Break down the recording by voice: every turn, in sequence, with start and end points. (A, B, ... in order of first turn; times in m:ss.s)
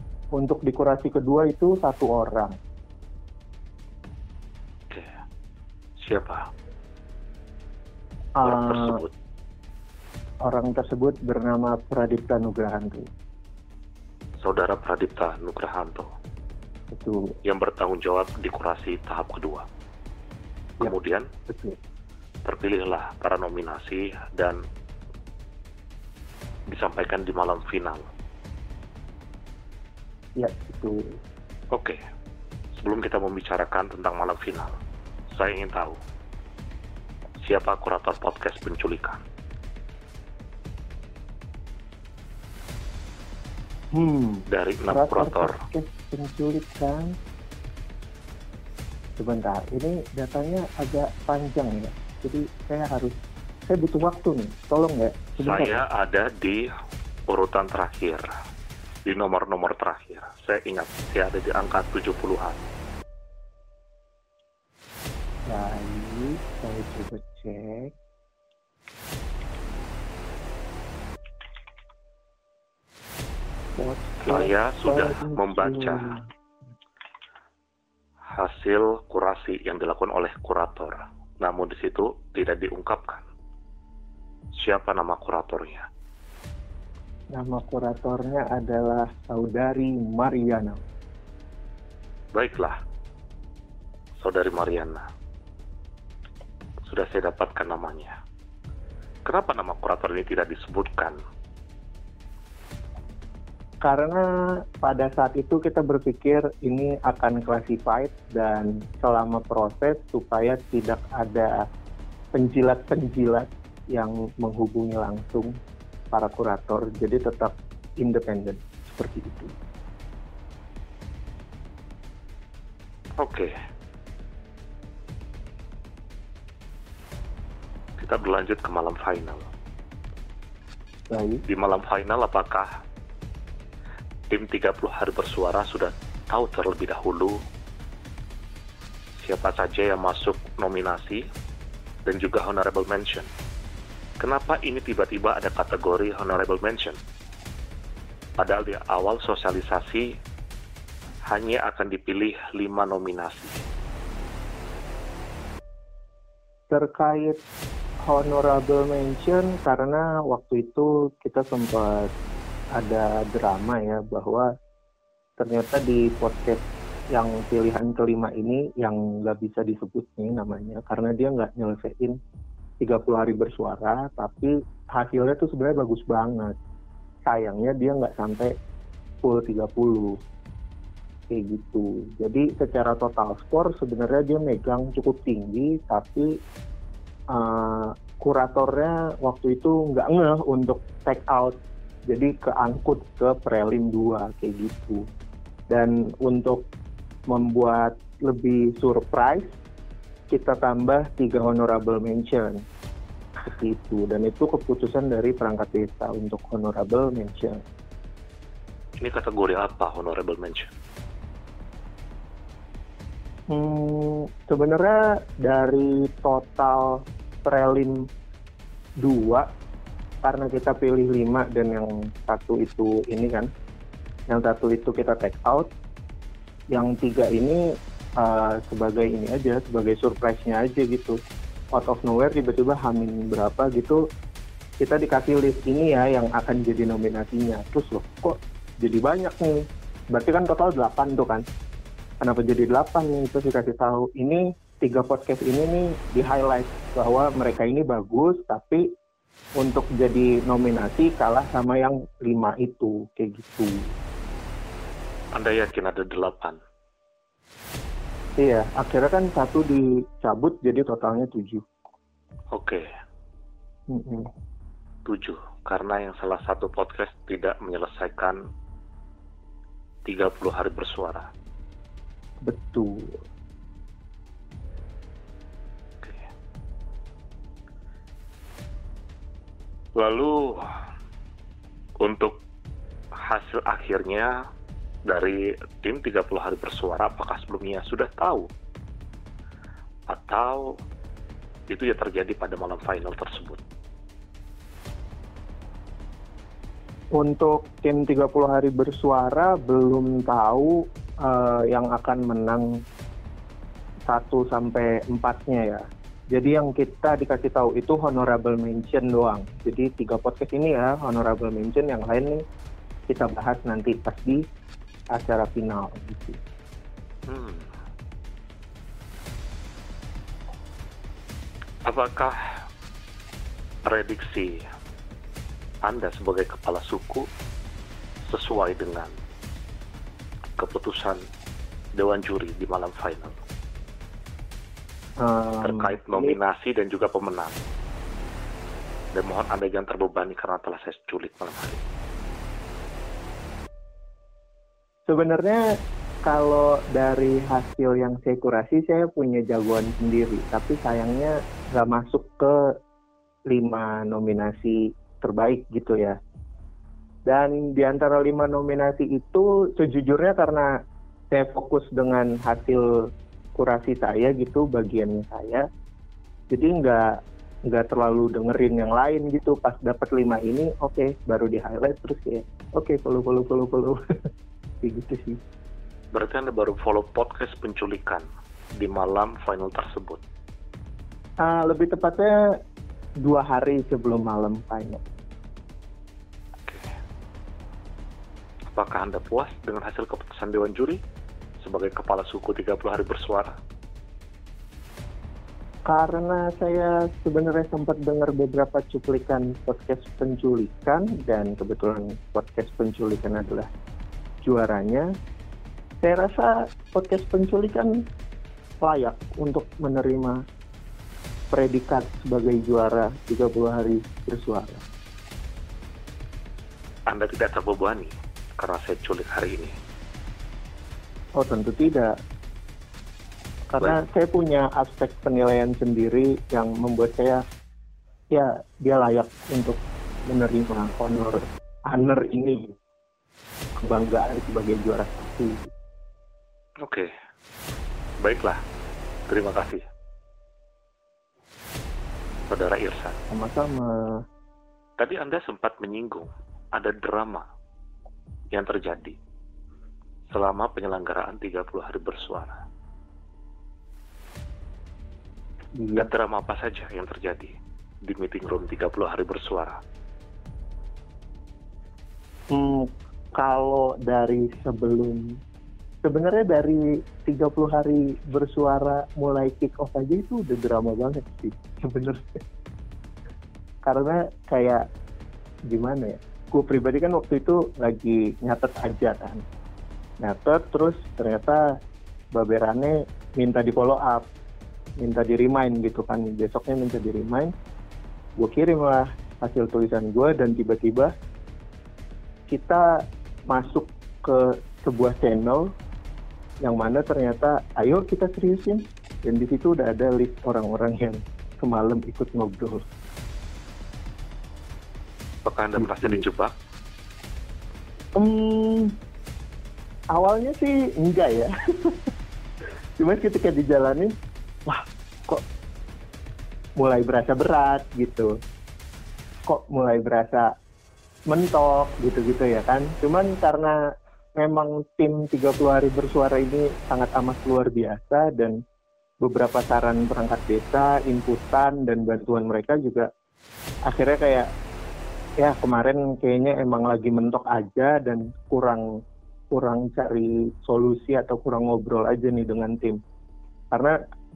0:00.3-0:02.6 A
0:06.0-0:06.4 B
0:08.4-0:09.0 A
0:08.4-0:09.1 B
0:10.4-0:13.1 A
0:14.4-0:16.1 B
0:16.9-0:17.4 A
0:17.4-0:19.7 B
0:20.8-0:21.3 B
0:21.5-0:21.8 A
0:22.4-0:24.6 B
0:26.7-0:28.1 B
0:30.4-0:31.2 A
0:31.7-0:32.0 B
0:32.8-0:34.8 B
0:35.3-0:36.0 B
0:37.4-0:39.2 B
0:43.9-0:47.2 A
0:44.5-0:45.6 B
0:49.2-0:53.2 A
0:53.7-0:55.8 A
0:55.4-0:56.7 B
0:57.3-0:58.3 B
0:59.1-1:02.6 B
1:05.5-1:07.9 A
1:13.8-1:16.2 A
1:14.2-1:16.2 B
1:18.3-1:23.3 B
1:24.6-1:25.9 B
1:27.4-1:30.8 A
1:32.3-1:32.8 B
1:34.2-1:35.0 B
1:36.9-1:38.1 B
1:39.3-1:41.2 B
1:43.8-1:44.2 A
1:44.8-1:51.6 A
1:52.3-1:55.6 A
1:56.1-1:59.6 A
2:03.2-2:03.5 B
2:08.0-2:09.5 B
2:11.1-2:11.4 A
2:11.5-2:12.7 B
2:14.3-2:17.4 B
2:19.2-2:21.2 B
2:22.1-2:23.3 B
2:24.2-2:27.0 B
2:28.4-2:30.1 B
2:31.3-2:33.6 B
2:36.7-2:37.4 A
2:38.0-2:42.1 A
2:42.8-2:44.5 A
2:45.4-2:52.2 A
2:52.8-2:56.6 A
2:57.3-2:58.5 A
2:59.2-3:00.2 A
3:01.3-3:06.3 A
3:07.3-3:15.0 A
3:15.7-3:16.7 A
3:17.3-3:19.5 A
3:20.3-3:22.6 A
3:23.4-3:27.6 A
3:29.0-3:30.7 B
3:33.5-3:38.1 A
3:39.0-3:39.5 A
3:40.2-3:43.5 A
3:44.3-3:45.7 A
3:46.7-3:47.6 A
3:48.2-3:51.2 A
3:51.7-3:54.0 A
3:54.8-4:01.5 A
4:02.2-4:08.9 A
4:09.6-4:13.9 A
4:15.4-4:16.6 B
4:18.4-4:21.6 A
4:22.5-4:22.9 B
4:23.9-4:24.3 A
4:25.1-4:28.4 B
4:30.1-4:31.3 B
4:32.4-4:33.2 A
4:40.0-4:40.7 B
4:42.0-4:42.4 B
4:43.2-4:44.3 B
4:45.1-4:48.5 B
4:50.1-4:50.7 B
4:51.7-4:53.6 B
4:57.2-5:02.7 A
5:04.1-5:12.4 A
5:13.1-5:14.4 A
5:15.1-5:16.4 A
5:17.3-5:17.7 B
5:21.9-5:22.4 B
5:23.9-5:24.6 B
5:25.8-5:27.3 B
5:28.2-5:29.1 B
5:30.6-5:31.2 B
5:32.0-5:33.4 B
5:35.2-5:36.4 A
5:35.6-5:37.6 B
5:39.1-5:41.8 B
5:45.1-5:45.6 A
5:46.2-5:52.6 A
5:53.5-5:56.2 A
5:57.3-6:00.7 A
6:01.3-6:02.9 A
6:03.6-6:05.6 A
6:06.5-6:14.0 A
6:14.8-6:15.4 A
6:16.1-6:18.3 B
6:18.8-6:20.2 B
6:21.4-6:22.4 A
6:23.2-6:25.0 A
6:28.7-6:31.0 B
6:31.6-6:33.6 B
6:35.9-6:43.7 A
6:44.4-6:45.1 A
6:46.0-6:47.9 A
6:48.8-6:50.4 A
6:51.5-6:54.8 A
6:57.1-6:59.7 B
7:01.4-7:02.2 A
7:03.7-7:07.4 A
7:08.3-7:12.8 A
7:13.8-7:15.7 A
7:16.8-7:17.1 B
7:18.2-7:18.6 B
7:19.3-7:19.8 B
7:22.5-7:23.2 B
7:23.3-7:24.2 A
7:25.0-7:27.4 B
7:28.5-7:29.2 B
7:30.3-7:32.6 B
7:35.8-7:36.1 A
7:36.0-7:37.5 B
7:38.0-7:39.8 B
7:42.5-7:45.3 A
7:46.0-7:52.2 A
7:53.8-7:54.9 A
7:55.7-7:59.4 A
8:00.2-8:01.8 A
8:02.3-8:04.3 A
8:05.0-8:07.5 A
8:08.4-8:11.1 A
8:12.5-8:15.8 A
8:16.6-8:22.8 A
8:25.4-8:26.6 B
8:25.8-8:26.2 A
8:28.2-8:29.0 A
8:30.1-8:32.1 A
8:33.0-8:34.1 A
8:34.7-8:35.4 A
8:36.8-8:38.4 A
8:39.5-8:40.5 A
8:41.3-8:43.8 A
8:44.4-8:48.6 A
8:49.2-8:53.1 A
8:53.9-8:54.5 A
8:55.4-8:58.8 A
8:59.5-9:03.0 A
9:03.7-9:04.0 A